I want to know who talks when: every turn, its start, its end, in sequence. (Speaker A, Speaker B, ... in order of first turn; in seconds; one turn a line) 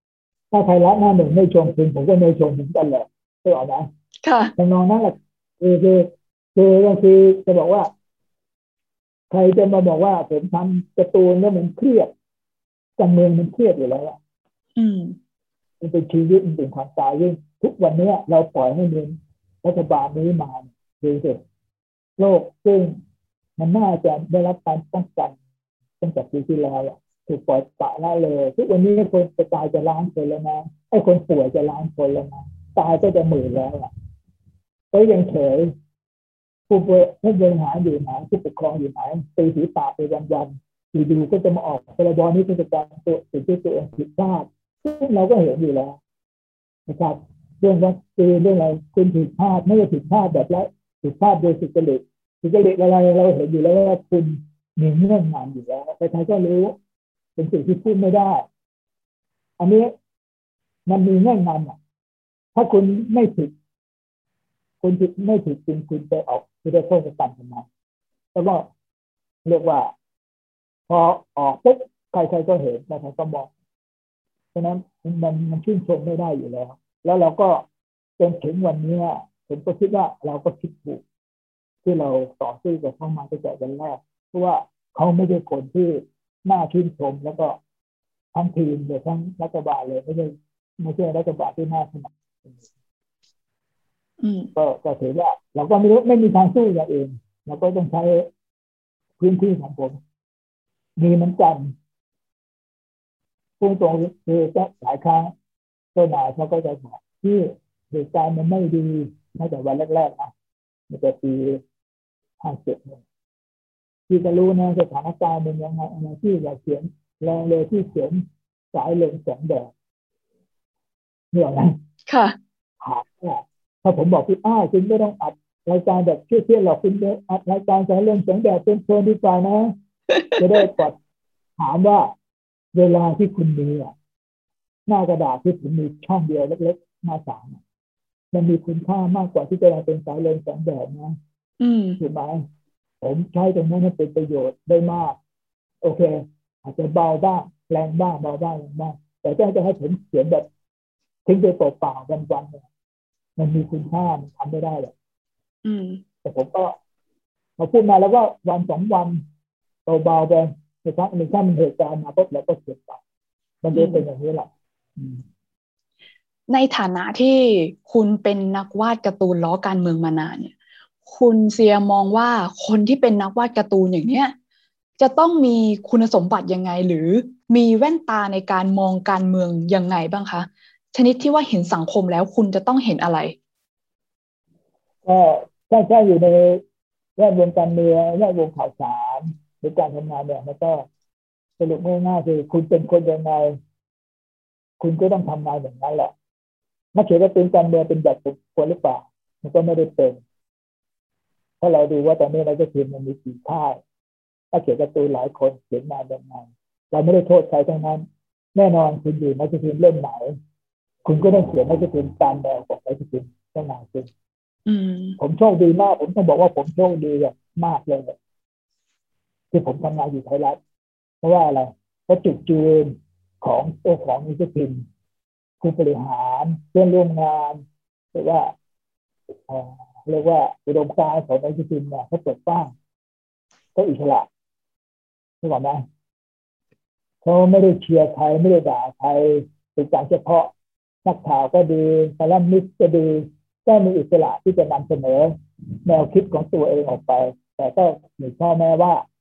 Speaker A: 0.5-3.9
Speaker B: 4.2-4.5
Speaker A: 4.6-7.9
Speaker A: 9.3-12.1
Speaker A: 13.0-14.2
Speaker B: 14.8-15.2
Speaker A: 15.8-21.4
Speaker A: 22.2-23.0
Speaker A: 23.6-25.4
Speaker A: 26.0-33.9
Speaker A: 34.9-35.7
Speaker A: 36.7-46.0
Speaker A: 46.9-56.8
Speaker A: 57.4-58.5
Speaker A: 59.6-59.9
Speaker A: 60.9-61.8
Speaker A: 62.5-63.5
Speaker A: 64.8-67.7
Speaker A: 68.3-68.7
Speaker A: 69.5-69.9
Speaker A: 70.9-73.5
Speaker A: 74.5-77.7
Speaker A: 78.2-81.0
Speaker A: 81.8-87.6
Speaker A: 88.3-92.7
Speaker B: 94.2-94.5
Speaker A: 94.6-98.3
Speaker A: 99.2-100.0
Speaker A: 101.0-101.7
Speaker A: 103.6-105.3
Speaker A: 106.0-110.3
Speaker A: 110.9-111.6
Speaker A: 112.4-113.0
Speaker A: 114.1-118.2
Speaker A: 118.7-119.7
Speaker A: 121.3-121.7
Speaker B: 122.1-122.4
Speaker A: 122.8-129.7
Speaker A: 130.4-131.0
Speaker A: 131.6-132.1
Speaker A: 132.7-133.9
Speaker A: 134.9-137.6
Speaker A: 138.3-141.2
Speaker B: 141.6-142.0
Speaker A: 142.0-142.4
Speaker A: 143.0-145.2
Speaker A: 145.8-150.5
Speaker A: 151.3-152.7
Speaker A: 153.4-154.9
Speaker B: 155.7-156.0
Speaker A: 156.2-156.7
Speaker A: 157.6-159.2
Speaker A: 159.9-163.0
Speaker A: 163.6-165.2
Speaker B: 163.7-164.0
Speaker B: 166.5-170.5
Speaker B: 171.1-174.3
Speaker B: 175.0-183.4
Speaker A: 185.0-186.6
Speaker A: 187.2-190.8
Speaker A: 191.6-193.6
Speaker A: 194.8-196.1
Speaker A: 196.9-200.2
Speaker A: 201.6-203.8
Speaker A: 204.5-210.4
Speaker A: 211.1-214.1
Speaker B: 214.7-215.2
Speaker A: 215.2-218.2
Speaker A: 219.5-220.6
Speaker A: 221.2-224.8
Speaker A: 225.6-228.5
Speaker A: 229.5-232.7
Speaker A: 233.8-234.3
Speaker A: 235.4-235.8
Speaker A: 237.2-240.5
Speaker A: 241.1-245.3
Speaker A: 245.9-249.0